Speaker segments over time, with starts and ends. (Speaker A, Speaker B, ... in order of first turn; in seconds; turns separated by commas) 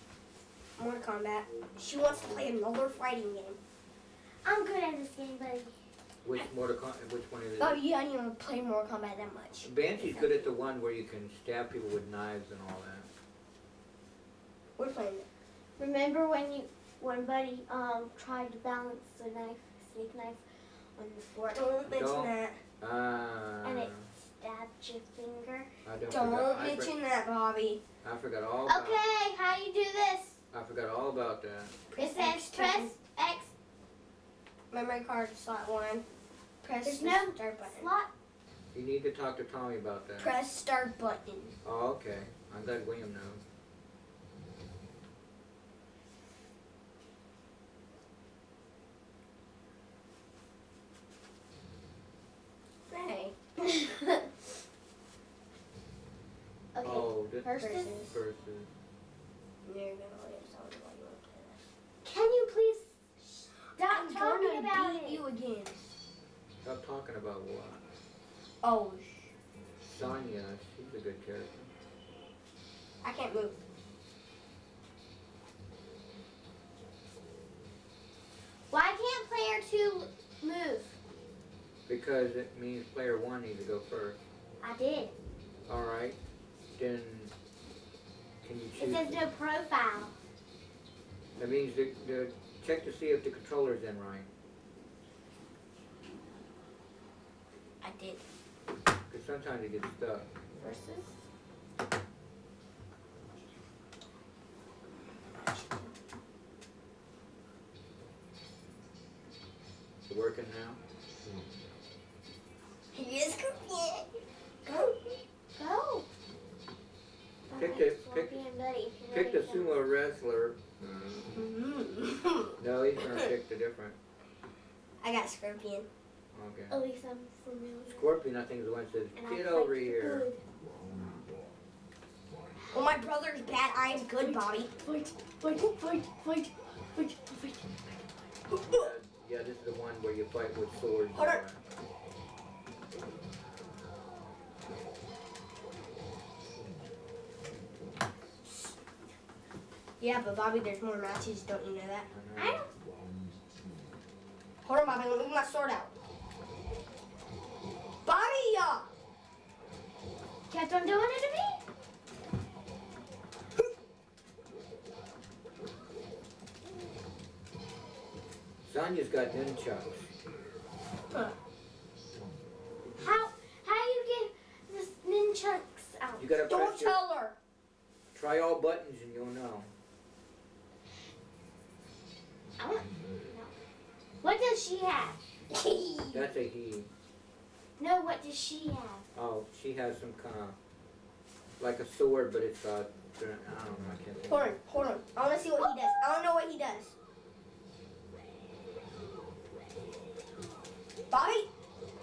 Speaker A: 0.8-3.6, Speaker B: 2.1-2.5, Speaker C: 4.4-5.7, Speaker B: 6.2-7.8, Speaker A: 7.6-10.5, Speaker B: 9.6-13.1, Speaker A: 14.8-15.2, Speaker C: 15.8-21.7, Speaker A: 21.5-22.6, Speaker B: 21.9-24.1, Speaker C: 23.6-25.7, Speaker B: 25.8-26.9, Speaker A: 26.1-27.8, Speaker B: 28.0-29.0, Speaker C: 28.7-30.4, Speaker B: 30.5-31.8, Speaker A: 31.9-32.9, Speaker C: 31.9-33.5, Speaker A: 34.7-36.0, Speaker A: 36.6-37.9, Speaker C: 36.8-38.1, Speaker B: 38.7-40.3, Speaker A: 40.2-41.5, Speaker B: 41.6-43.4, Speaker A: 52.9-53.4, Speaker C: 53.7-54.2, Speaker C: 56.7-58.0, Speaker B: 56.8-58.7, Speaker A: 57.5-58.1, Speaker A: 59.6-61.6, Speaker C: 62.0-65.2, Speaker A: 63.6-65.9, Speaker B: 66.6-67.8, Speaker A: 68.6-69.3, Speaker B: 69.9-71.7, Speaker A: 73.0-73.6, Speaker C: 78.7-81.0, Speaker B: 81.9-84.2, Speaker C: 84.6-85.1, Speaker B: 85.7-86.2, Speaker B: 86.7-87.3, Speaker B: 88.4-89.2, Speaker C: 88.8-90.1, Speaker B: 91.4-94.3, Speaker A: 97.8-98.2, Speaker B: 99.1-100.3, Speaker C: 100.6-101.2, Speaker B: 110.1-110.8, Speaker A: 112.9-115.2, Speaker C: 115.5-116.1, Speaker C: 117.5-119.8, Speaker B: 117.5-118.3, Speaker B: 119.1-120.6, Speaker A: 121.3-122.6, Speaker B: 122.6-124.0, Speaker A: 125.0-125.9, Speaker B: 126.3-126.9, Speaker C: 126.7-128.1, Speaker B: 127.9-130.3, Speaker C: 129.2-130.4, Speaker A: 132.7-134.7, Speaker C: 134.1-137.8, Speaker A: 138.5-138.9, Speaker B: 138.7-141.6, Speaker A: 141.1-141.4, Speaker A: 150.0-152.1, Speaker B: 152.1-152.6, Speaker C: 152.4-152.7, Speaker A: 154.6-155.9, Speaker A: 158.0-158.9, Speaker C: 160.5-161.6, Speaker B: 168.7-170.1, Speaker C: 173.0-176.3, Speaker B: 176.2-177.0, Speaker A: 176.5-177.4, Speaker B: 178.1-179.7, Speaker C: 182.6-183.6, Speaker C: 184.2-185.2, Speaker A: 185.5-186.3, Speaker B: 186.1-186.9, Speaker C: 187.8-189.1, Speaker B: 189.1-190.6, Speaker B: 191.6-194.5, Speaker A: 194.3-196.9, Speaker A: 201.1-201.5